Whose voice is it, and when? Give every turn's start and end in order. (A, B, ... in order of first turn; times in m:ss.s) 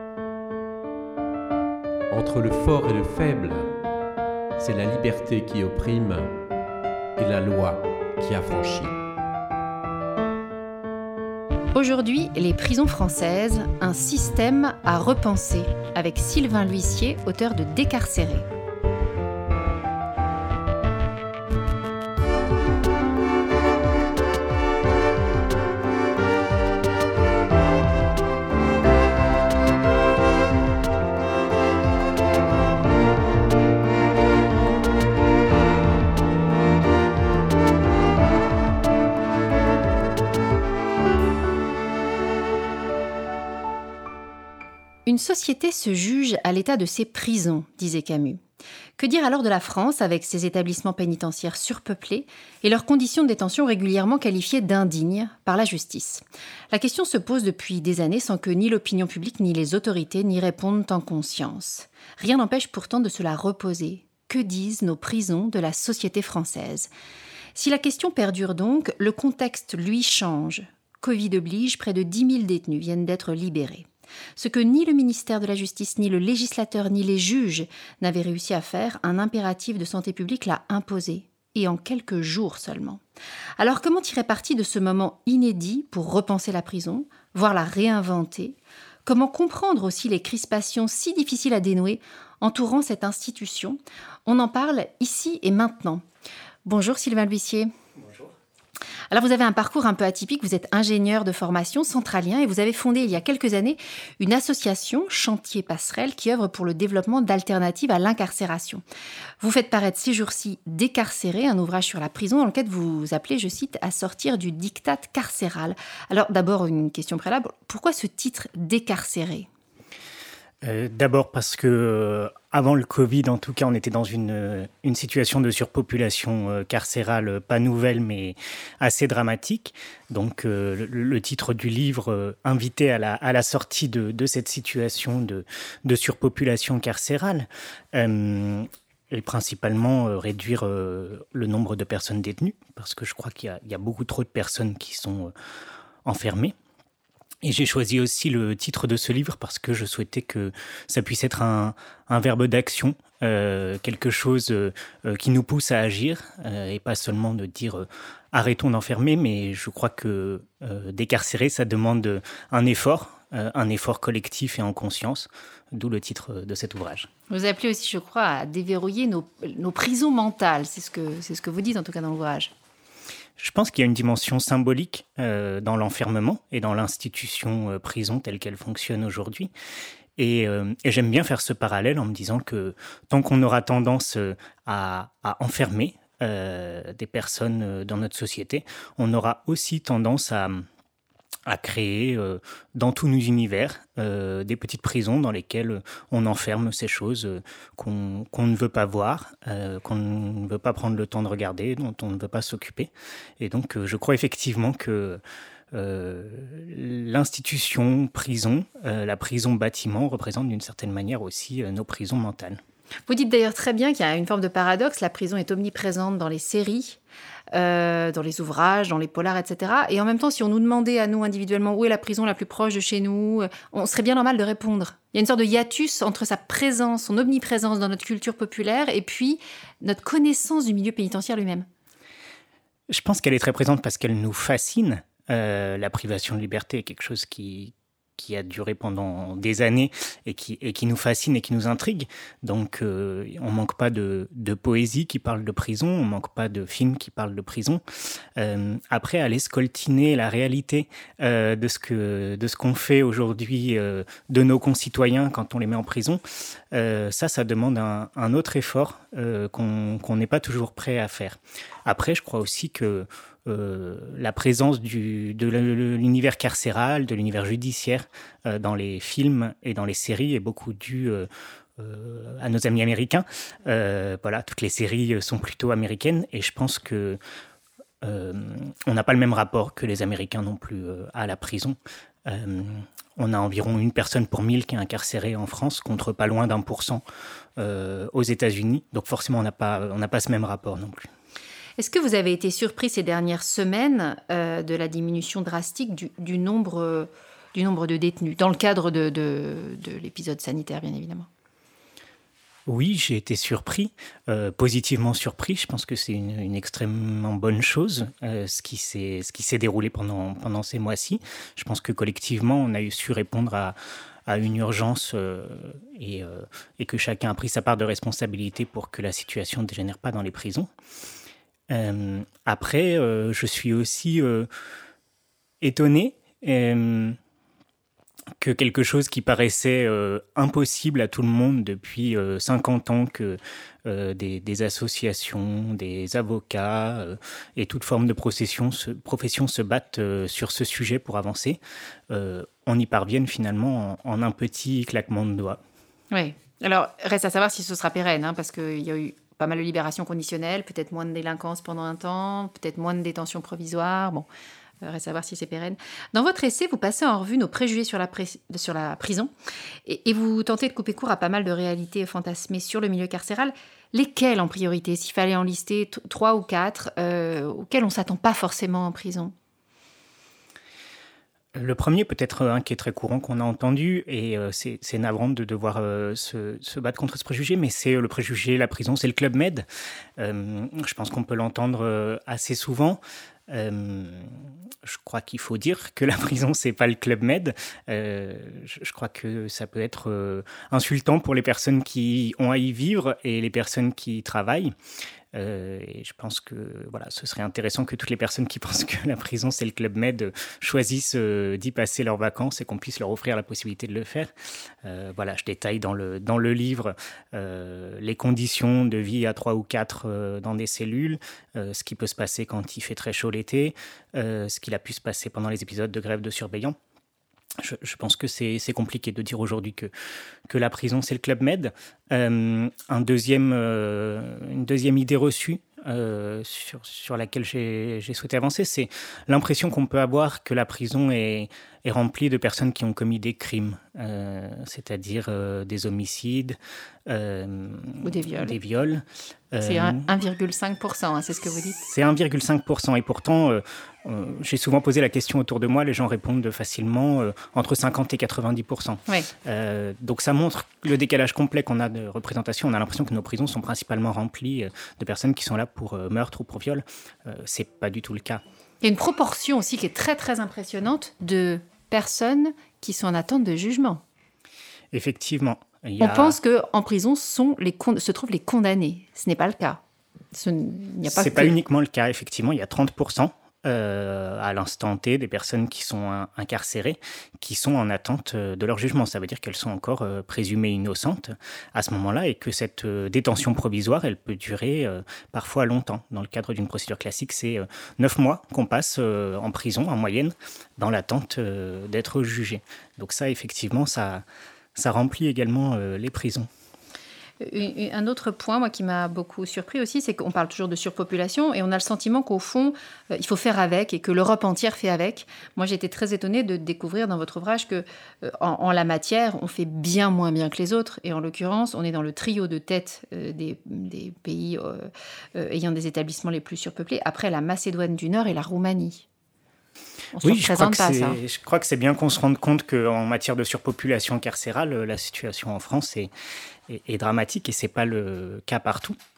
0:02.1-0:03.7 A
0:04.6-0:06.3 A
0:07.2-0:09.0 A
0:11.7-0:18.5 B
0:45.0-0:48.4 B
0:49.0-1:06.9 B
1:07.6-1:23.0 B
1:23.6-1:36.0 B
1:36.6-1:37.7 B
1:39.1-1:48.8 B
1:49.4-1:59.5 B
2:00.6-2:25.3 C
2:26.0-2:26.5 C
2:27.4-2:47.1 C
2:47.3-2:52.5 B
2:53.4-2:59.5 C
3:00.2-3:10.6 C
3:11.5-3:25.2 C
3:25.7-3:32.6 C
3:33.1-3:37.0 B
3:37.5-3:51.6 B
3:52.9-4:07.8 C
4:08.4-4:16.2 C
4:16.7-4:37.2 C
4:38.0-4:47.0 C
4:47.6-4:51.1 C
4:51.8-5:01.3 B
5:02.7-5:13.8 C
5:14.3-5:20.7 C
5:21.7-5:24.5 C
5:25.6-5:27.2 C
5:28.4-5:45.6 C
5:46.1-5:54.3 B
5:54.8-5:59.3 B
5:59.8-6:09.3 B
6:11.6-6:19.6 C
6:20.2-6:34.7 C
6:35.3-6:44.3 C
6:44.8-6:56.8 C
6:57.6-6:59.9 C
7:00.5-7:20.1 C
7:18.0-7:18.6 B
7:19.6-7:21.8 B
7:21.8-7:38.4 C
7:38.8-7:44.0 B
7:44.9-7:46.4 C
7:46.0-7:49.8 B
7:50.3-7:51.5 B
7:51.0-8:16.5 C
8:17.4-8:39.0 B
8:40.1-8:41.2 B
8:40.2-8:46.1 C
8:46.7-8:49.0 C